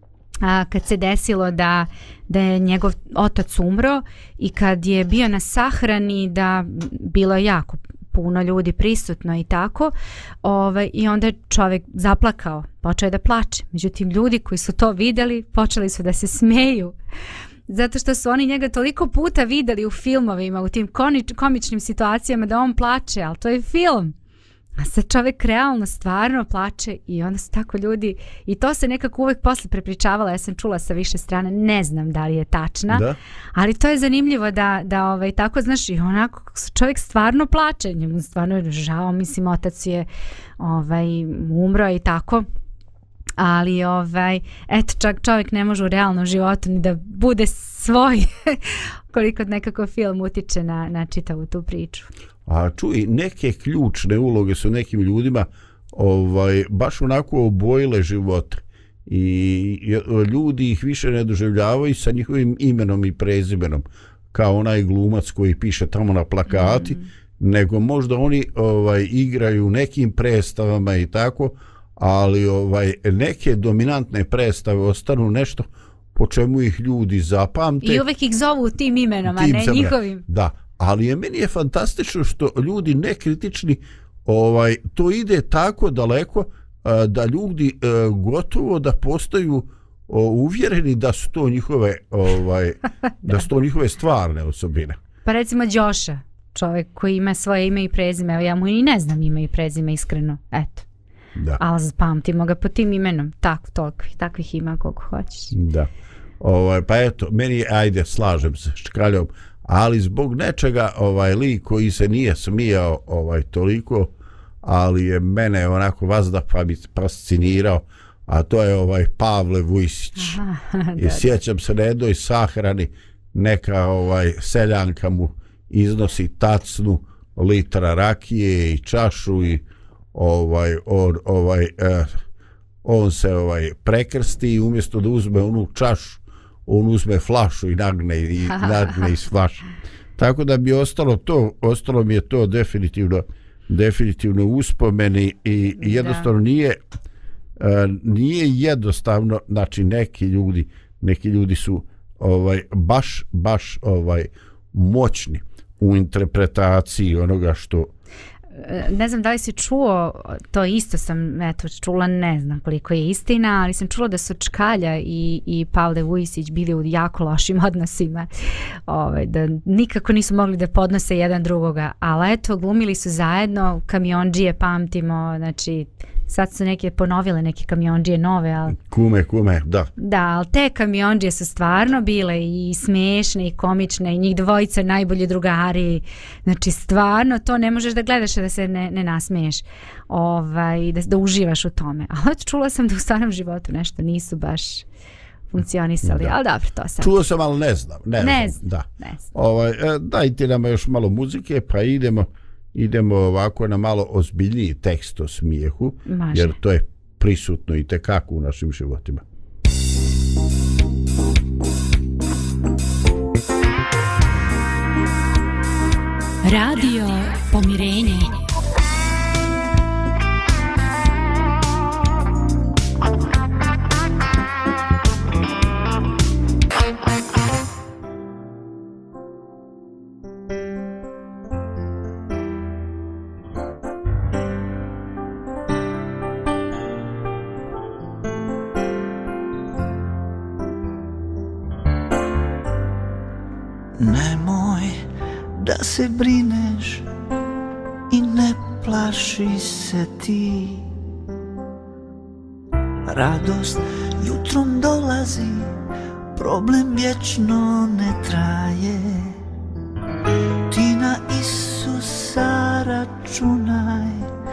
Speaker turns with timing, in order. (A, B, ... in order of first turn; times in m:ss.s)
0:00.4-0:16.9 A
0:17.7-0:24.1 A
0:24.8-0:40.1 A
0:32.9-0:33.2 B
0:40.6-0:42.4 A
0:43.4-0:52.1 A
0:52.4-1:18.0 B
1:17.8-1:20.2 A
1:19.3-1:35.0 B
1:35.2-1:40.8 A
1:41.6-1:45.5 A
1:45.5-1:45.9 B
1:46.4-1:54.1 B
1:54.6-2:00.4 B
2:00.2-2:01.2 A
2:01.0-2:12.2 B
2:12.8-2:19.6 B
2:20.2-2:26.8 B
2:26.0-2:26.2 A
2:27.6-2:37.9 B
2:38.6-2:48.3 A
2:48.9-2:58.8 A
2:58.8-2:59.9 B
3:00.0-3:14.8 A
3:15.5-3:17.1 A
3:16.0-3:16.3 B
3:17.0-3:29.2 B
3:18.2-3:19.3 A
3:26.1-3:26.5 A
3:36.4-3:38.4 A
4:04.0-4:07.0 C
4:08.1-4:10.9 C
4:13.0-4:15.7 C
4:16.3-4:19.4 C
4:20.7-4:24.3 C